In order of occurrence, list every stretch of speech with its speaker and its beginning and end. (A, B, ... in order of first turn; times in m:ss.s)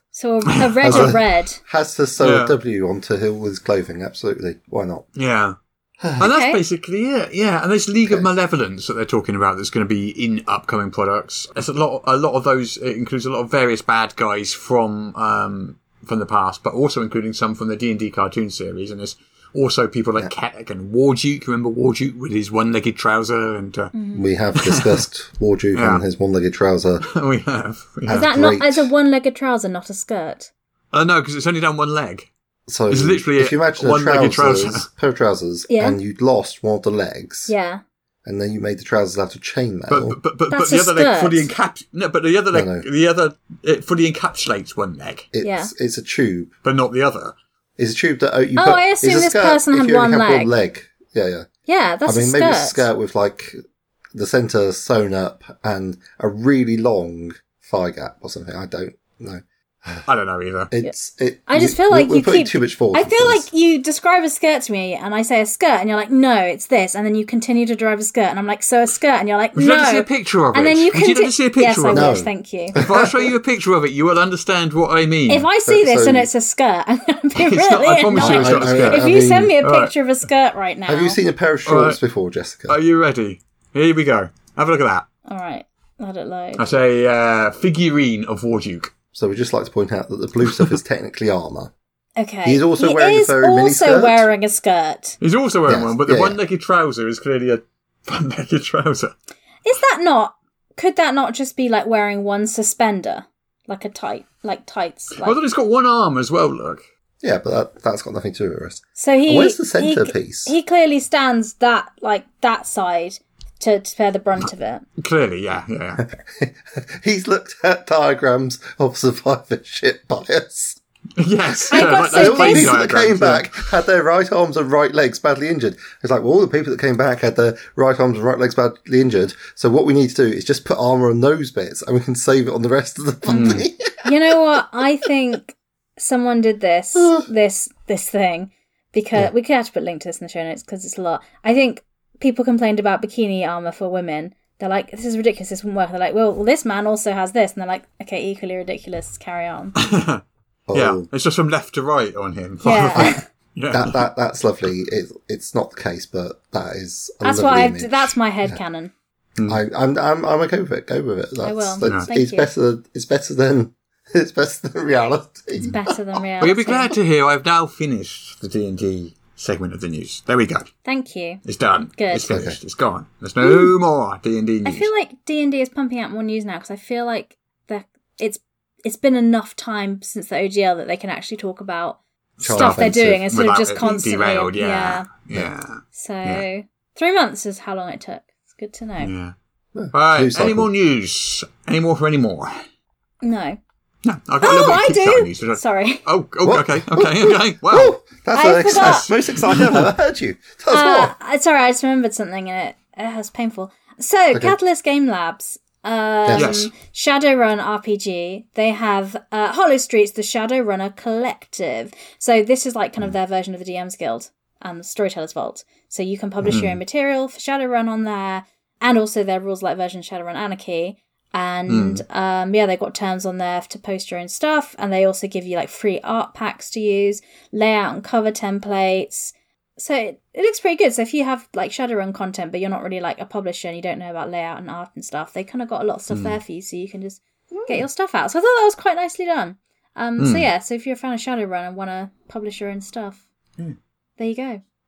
0:00.1-0:01.6 A
0:00.5-0:01.2 B
0:00.8-0:05.0 C
0:02.2-0:02.6 B
0:05.2-0:05.6 B
0:06.0-0:06.3 C
0:06.2-0:23.9 B
0:06.2-0:06.6 A
0:23.9-0:24.3 A
0:24.1-0:27.1 C
0:24.6-0:25.0 B
0:25.8-0:26.0 B
0:27.0-0:28.3 B
0:28.1-0:28.9 C
0:28.1-0:30.5 A
0:30.9-0:32.3 B
0:32.7-0:37.5 C
0:32.9-0:34.9 B
0:35.7-0:36.0 A
0:37.5-0:37.8 A
0:38.2-0:40.2 C
0:39.9-0:45.3 B
0:40.5-0:41.5 A
0:42.5-0:42.9 C
0:45.3-0:46.5 C
0:45.4-0:45.7 A
0:46.6-0:47.4 B
0:47.8-0:51.5 C
0:48.6-0:50.5 A
0:51.7-0:52.8 A
0:52.0-0:53.6 C
0:54.1-1:00.0 C
1:00.1-1:00.7 B
1:00.7-1:03.5 C
1:01.5-1:12.8 A
1:09.6-1:12.2 B
1:11.9-1:13.1 C
1:12.8-1:15.5 B
1:15.3-1:21.2 A
1:15.6-1:16.3 C
1:17.4-1:19.9 B
1:18.1-1:19.6 C
1:20.9-1:22.8 C
1:21.7-1:22.0 B
1:22.7-1:25.1 B
1:25.3-1:26.7 A
1:26.6-1:28.9 B
1:29.1-1:31.7 C
1:32.2-1:35.2 A
1:32.4-1:34.3 C
1:35.2-1:39.1 B
1:35.7-1:36.4 C
1:39.6-1:45.4 A
1:45.2-1:46.8 B
1:47.2-1:50.5 C
1:49.0-1:54.9 A
1:55.0-1:56.0 B
1:56.0-2:00.8 C
2:01.2-2:03.6 B
2:01.5-2:14.6 C
2:01.7-2:02.8 A
2:13.3-2:29.8 A
2:13.3-2:13.7 B
2:17.0-2:17.2 C
2:29.8-2:30.2 B
2:30.7-2:31.1 C
2:30.7-2:34.1 B
2:32.6-2:33.2 A
2:33.7-2:38.6 C
2:37.2-2:38.9 A
2:39.5-2:46.2 C
2:41.4-2:42.5 A
2:41.8-2:42.1 B
2:45.6-2:46.9 A
2:46.4-2:50.7 B
2:50.8-2:51.4 A
2:51.4-2:54.9 B
2:52.0-2:52.3 A
2:52.2-2:52.6 C
2:53.4-2:53.7 A
2:54.6-3:05.1 A
3:02.4-3:06.4 B
3:02.4-3:03.4 C
3:05.9-3:09.1 A
3:09.0-3:09.3 B
3:09.8-3:10.7 C
3:09.9-3:12.6 B
3:13.2-3:13.6 A
3:14.0-3:18.0 B
3:14.4-3:16.0 A
3:16.4-3:21.1 C
3:18.3-3:19.1 A
3:18.7-3:19.9 B
3:20.7-4:03.2 A
3:26.3-3:26.5 C
3:26.3-3:26.7 B
3:36.5-3:36.8 B
3:41.7-3:42.0 B
3:56.1-3:56.4 B
4:00.2-4:00.5 B
4:04.2-4:04.6 A